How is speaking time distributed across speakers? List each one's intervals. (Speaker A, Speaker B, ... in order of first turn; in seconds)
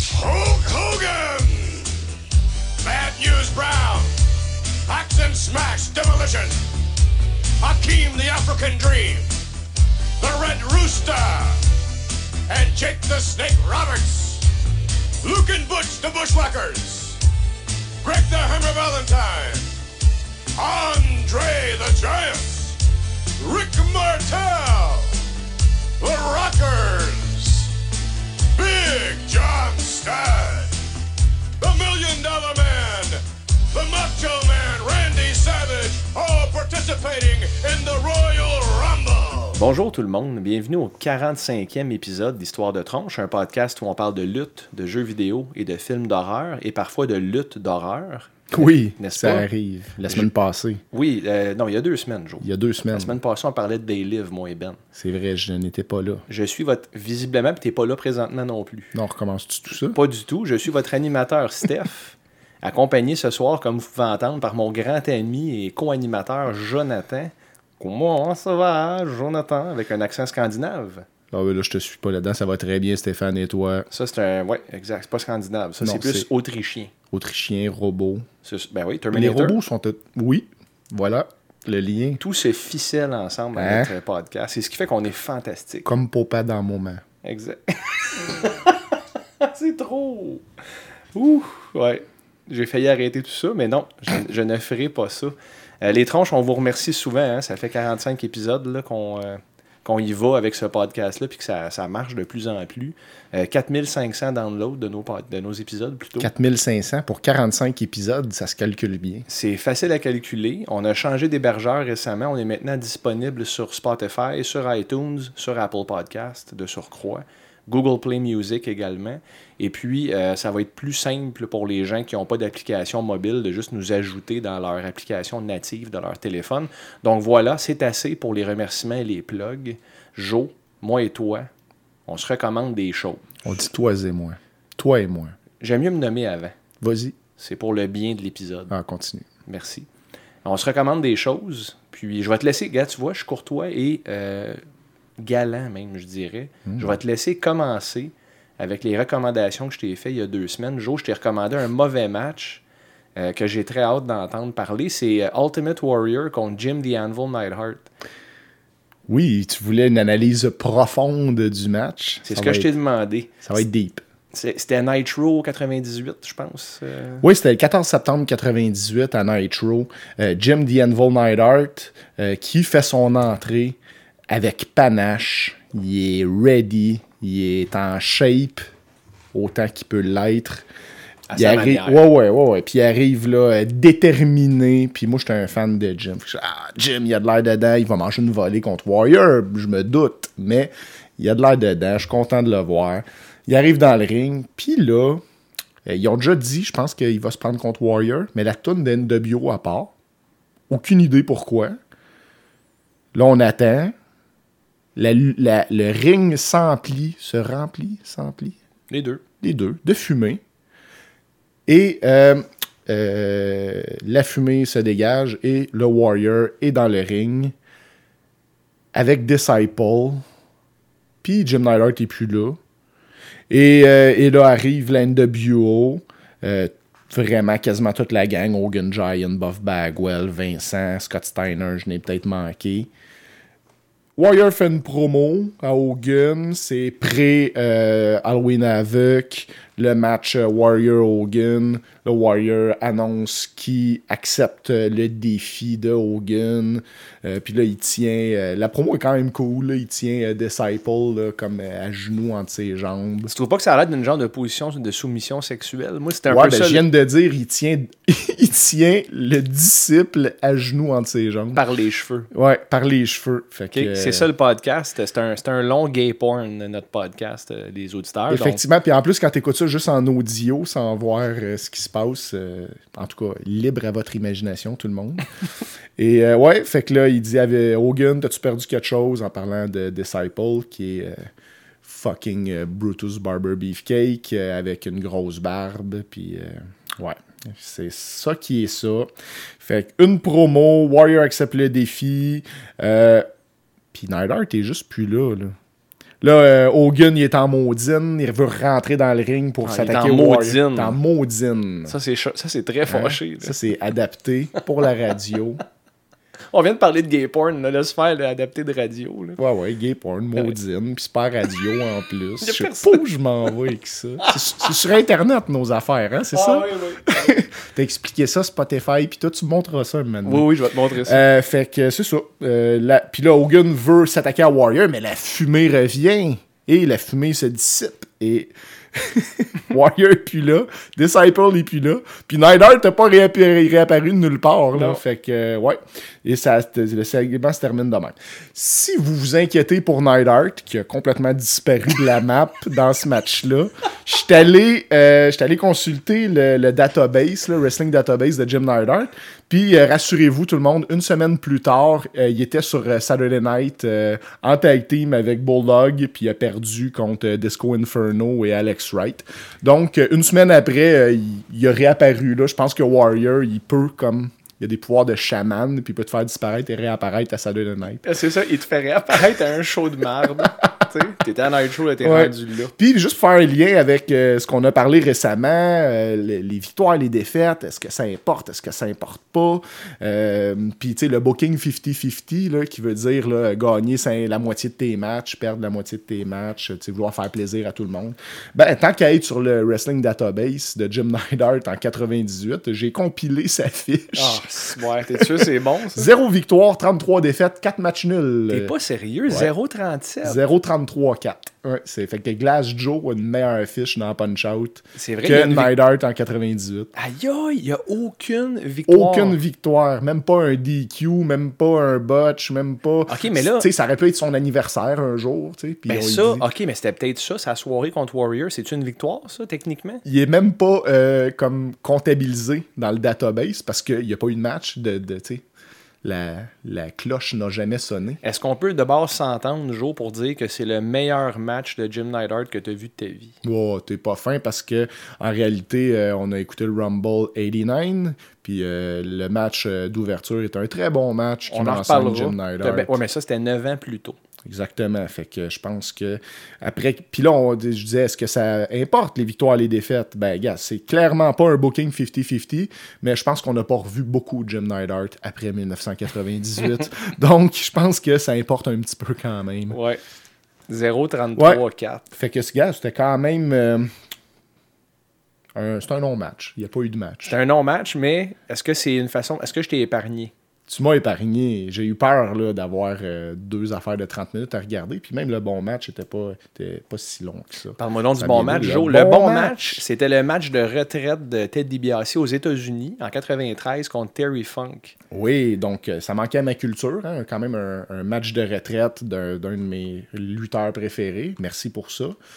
Speaker A: 0.1-2.0, 2.8-4.1, 4.9-6.6, 7.6-9.3, 10.2-11.6, 12.5-14.4, 15.2-17.2, 18.0-19.7, 20.6-22.8, 23.4-25.1, 26.0-27.7, 28.5-30.7, 31.6-39.6
Speaker B: 39.5-49.5, 50.0-50.3, 50.9-54.8, 56.3-58.9, 59.8-71.1, 73.9-76.9, 78.4-79.6, 82.2-85.9, 87.2-90.4, 91.1-106.3, 109.3-131.5, 132.1-133.3, 135.6-136.6, 137.4-138.7, 139.5-139.9, 140.4-144.6, 145.2-152.6, 153.2-157.9, 162.2-163.6, 164.3-167.2, 181.3-182.1, 208.9-209.2, 253.3-256.8, 261.5-262.3, 263.7-268.6, 299.6-301.0, 301.9-303.6, 306.5-309.4, 312.4-313.0, 316.3-317.3, 320.2-321.2, 334.7-335.0, 368.0-372.7, 394.1-396.1, 398.5-400.4, 404.9-405.7, 406.9-409.4, 413.1-413.7, 415.9-420.0, 428.2-433.4, 441.5-444.2, 459.7-460.0, 460.7-462.1, 467.2-470.3, 477.8-484.9
Speaker C: 48.5-50.8, 52.4-53.2, 54.9-56.2, 58.9-60.0, 71.3-73.8, 75.8-76.3, 77.1-78.2, 79.1-82.2, 83.5-83.9, 85.8-87.0, 106.2-109.2, 133.4-135.3, 136.8-137.2, 138.7-139.2, 146.7-147.0, 159.1-162.7, 163.4-164.0, 167.2-173.8, 174.3-178.7, 179.3-180.7, 181.3-195.2, 195.8-199.9, 200.7-201.8, 203.1-203.9, 204.9-208.6, 209.4-210.4, 211.7-217.5, 218.9-220.2, 221.2-222.6, 223.5-232.9, 234.2-253.3, 256.3-261.6, 262.3-264.3, 268.3-275.3, 275.9-281.3, 281.8-293.2, 293.9-295.6, 296.2-301.9, 302.9-305.6, 309.4-320.5, 321.1-368.0, 372.0-394.4, 395.2-398.7, 400.2-406.9, 408.9-416.4, 420.0-425.4, 426.0-428.2, 433.4-443.0, 444.4-459.8, 461.4-463.9, 465.5-467.4, 470.7-479.8, 485.1-492.1